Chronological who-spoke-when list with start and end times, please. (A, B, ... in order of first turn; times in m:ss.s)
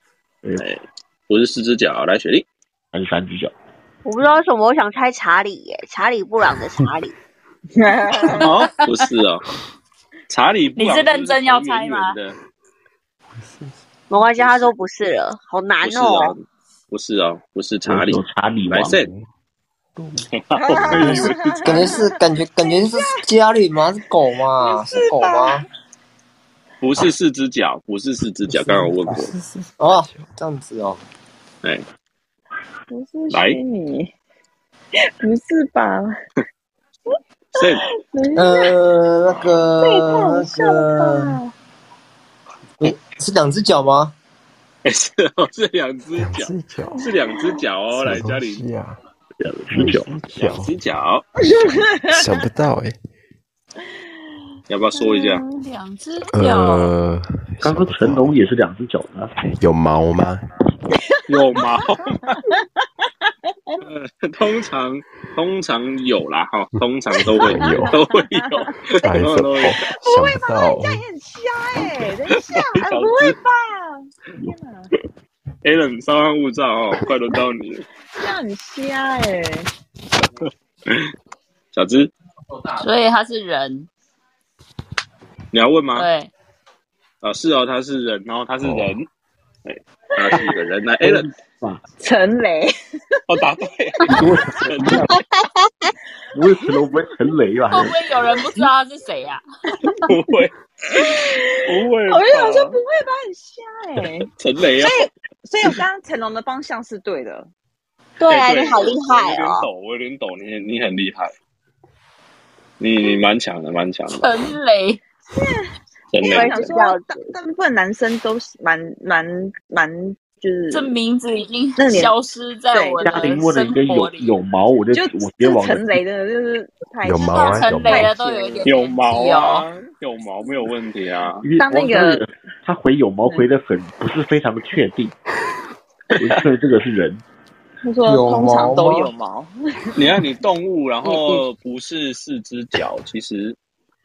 0:00.6-0:02.4 A
0:02.9-0:03.5 B
0:04.0-0:07.1 C
0:07.8-0:08.5 D
0:08.3-0:08.9 E
0:08.4-0:09.4 A
0:10.3-0:12.3 A
0:10.8-0:12.2 E
0:13.4-0:13.8 F
0:14.1-0:16.4 C
0:15.8-0:19.1 A
0:17.8-0:19.0 B
0:18.9-0:19.3 F
0:20.0-0:20.3 F
0:20.3-0:21.8 A
0:20.6-0:23.2 D
0:20.9-0:25.6 G
0:24.6-0:25.6 D
0:26.8-0:29.3 A
0:28.5-0:30.2 F
0:29.8-0:31.0 G
0:32.9-0:34.1 D
0:33.3-0:33.6 A
0:35.2-0:36.1 D
0:37.5-0:37.8 A
0:37.6-0:38.7 D
0:38.4-0:41.4 G
0:39.8-0:41.5 D
0:42.8-0:44.1 G
0:44.8-0:48.6 A
0:46.2-0:47.1 F
0:47.9-0:49.0 F
0:49.4-0:50.1 B
0:49.7-0:50.7 F
0:50.4-0:51.2 A
0:51.5-0:52.1 D
0:51.5-0:52.9 F
0:54.7-0:55.4 A
0:54.9-0:55.5 D
0:55.6-0:56.9 E
0:56.4-0:58.4 F
0:57.6-0:59.3 B
0:59.6-1:00.4 F
1:01.3-1:02.4 A
1:03.8-1:09.8 A
1:07.2-1:07.9 F
1:07.5-1:08.1 D
1:09.0-1:11.0 F
1:09.8-1:14.9 D
1:12.5-1:13.4 A
1:15.6-1:17.9 A
1:18.2-1:19.7 D
1:21.7-1:22.1 A
1:22.8-1:23.9 E
1:25.5-1:26.1 A
1:25.9-1:26.3 E
1:27.2-1:29.1 A
1:28.6-1:29.0 F
1:29.6-1:31.3 A
1:30.3-1:30.6 D
1:31.0-1:31.8 B
1:32.0-1:32.7 D
1:33.3-1:35.0 A
1:34.1-1:35.2 B
1:36.3-1:38.0 B
1:37.7-1:39.4 E
1:40.1-1:41.0 A
1:40.9-1:47.5 D
1:41.6-1:42.8 A
1:44.3-1:45.1 A
1:48.2-1:49.7 C
1:48.3-1:51.3 A
1:52.8-1:54.3 A
1:54.1-1:55.0 E
1:55.4-1:55.6 D
1:56.1-1:56.6 A
1:56.2-2:00.9 D
1:56.2-1:57.2 C
2:00.7-2:04.3 E
2:01.8-2:02.1 D
2:02.7-2:03.1 D
2:03.0-2:06.0 B
2:04.9-2:08.6 D
2:07.0-2:08.1 F
2:07.2-2:09.6 E
2:08.6-2:11.4 A
2:11.4-2:15.1 B
2:11.6-2:12.2 D
2:16.2-2:17.2 B
2:17.8-2:20.0 D
2:18.0-2:19.1 G
2:20.0-2:23.6 A
2:21.0-2:21.4 D